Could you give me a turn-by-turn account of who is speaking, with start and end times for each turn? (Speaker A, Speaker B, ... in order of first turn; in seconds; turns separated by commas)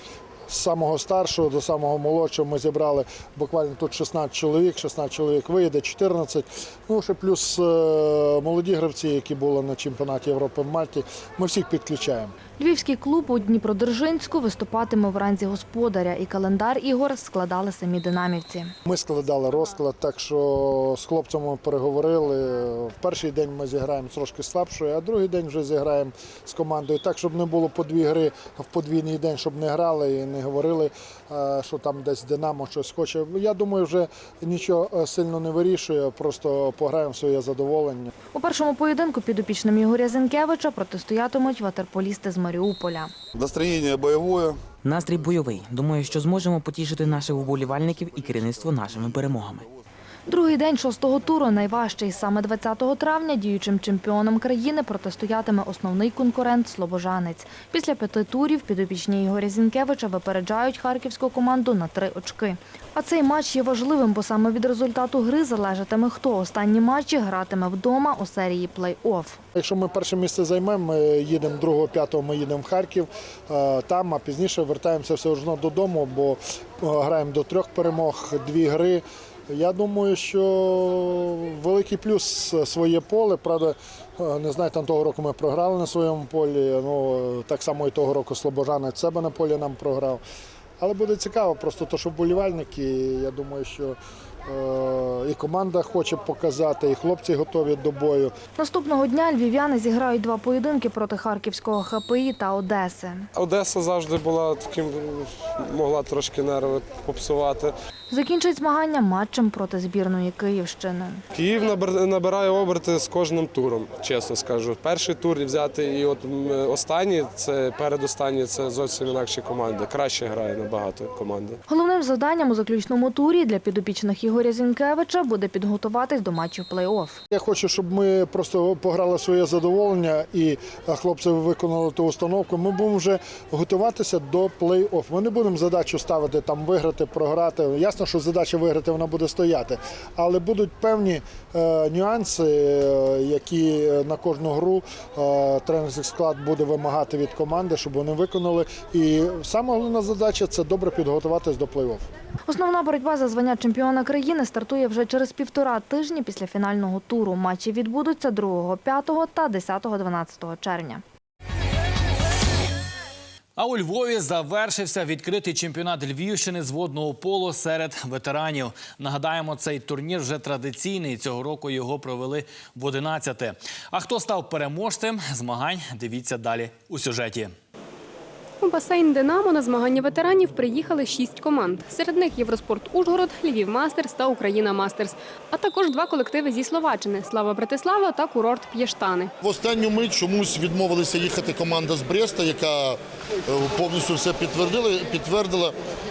Speaker A: 0.5-12.3, Speaker B: 12.6-18.7, Speaker A: 18.9-38.1, Speaker B: 38.3-43.1, Speaker C: 43.5-44.5, Speaker D: 44.8-49.7, Speaker B: 50.3-69.4, Speaker A: 69.6-90.2, Speaker A: 90.8-98.3, Speaker B: 98.6-103.3, Speaker E: 103.3-107.7, Speaker B: 108.1-111.2, Speaker E: 111.3-121.6, Speaker B: 121.7-127.2, Speaker A: 127.3-152.1, Speaker B: 152.5-161.0, Speaker F: 163.6-177.5, Speaker G: 178.6-189.3, Speaker C: 189.4-195.8